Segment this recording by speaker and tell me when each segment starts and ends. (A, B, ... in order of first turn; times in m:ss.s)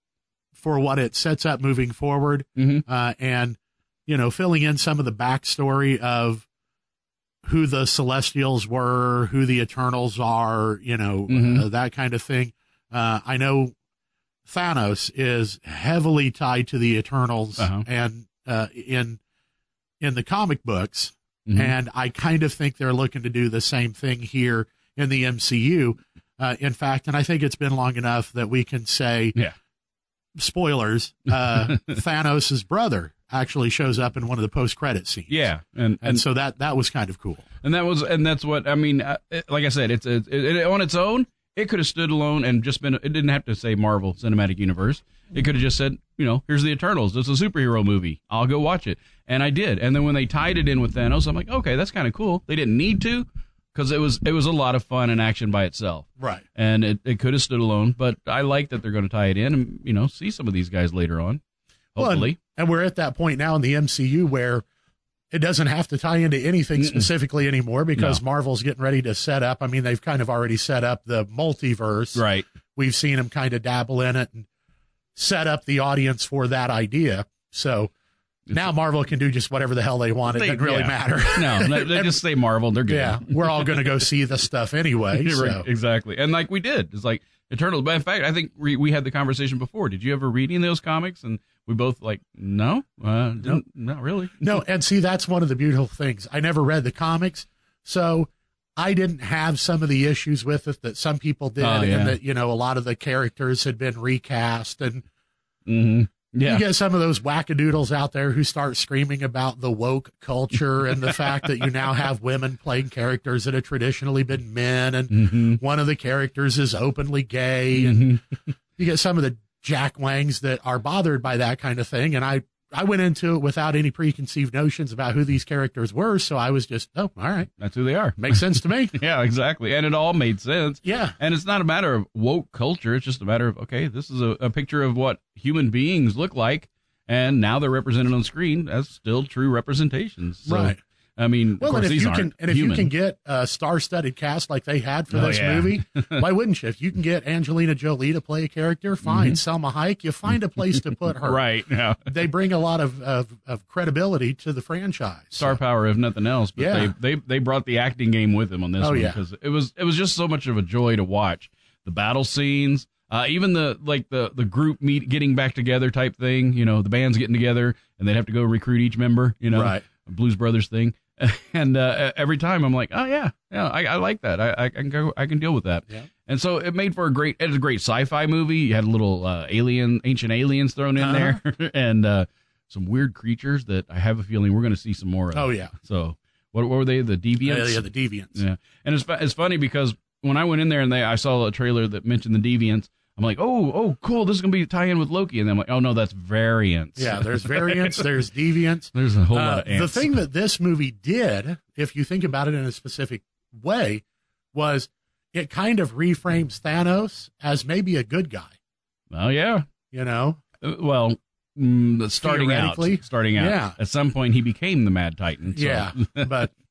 0:00.6-0:06.4 A
0:02.6-0:02.8 B
0:07.4-0:13.8 A
0:11.3-0:11.6 B
0:14.4-0:19.2 A
0:17.6-0:17.8 B
0:20.0-0:29.4 A
0:21.4-0:21.8 B
0:30.4-0:35.4 A
0:31.3-0:32.0 B
0:35.3-0:36.2 B
0:36.0-0:37.4 A
0:37.6-1:01.4 B
0:56.2-0:56.4 A
1:01.9-1:02.4 B
1:02.0-1:04.6 A
1:05.3-1:12.2 A
1:06.8-1:07.1 B
1:12.1-1:12.4 B
1:12.8-1:14.5 A
1:15.1-1:17.9 A
1:18.5-1:22.1 A
1:20.3-1:23.9 B
1:22.9-1:25.6 A
1:25.1-1:34.6 B
1:34.4-1:45.1 A
1:41.6-1:42.2 B
1:45.7-1:46.6 B
1:46.4-1:58.2 A
1:51.0-1:51.6 B
1:55.1-1:55.6 B
1:57.8-1:58.2 B
1:58.8-2:07.5 A
2:07.6-2:22.9 B
2:08.2-2:09.0 A
2:10.8-2:11.2 A
2:20.5-2:20.8 A
2:21.6-2:31.4 A
2:25.1-2:26.2 B
2:29.0-2:29.4 B
2:31.1-2:32.1 B
2:32.0-2:35.6 A
2:35.4-3:18.0 B
2:36.6-2:36.9 A
2:38.8-2:39.2 A
2:49.5-2:49.8 A
3:01.0-3:01.4 A
3:05.3-3:05.7 A
3:07.4-3:08.4 A
3:17.0-3:28.5 A
3:18.9-3:20.1 B
3:29.1-3:29.7 B
3:29.9-3:30.4 A
3:30.6-3:36.3 B
3:32.2-3:33.8 A
3:35.6-3:36.5 A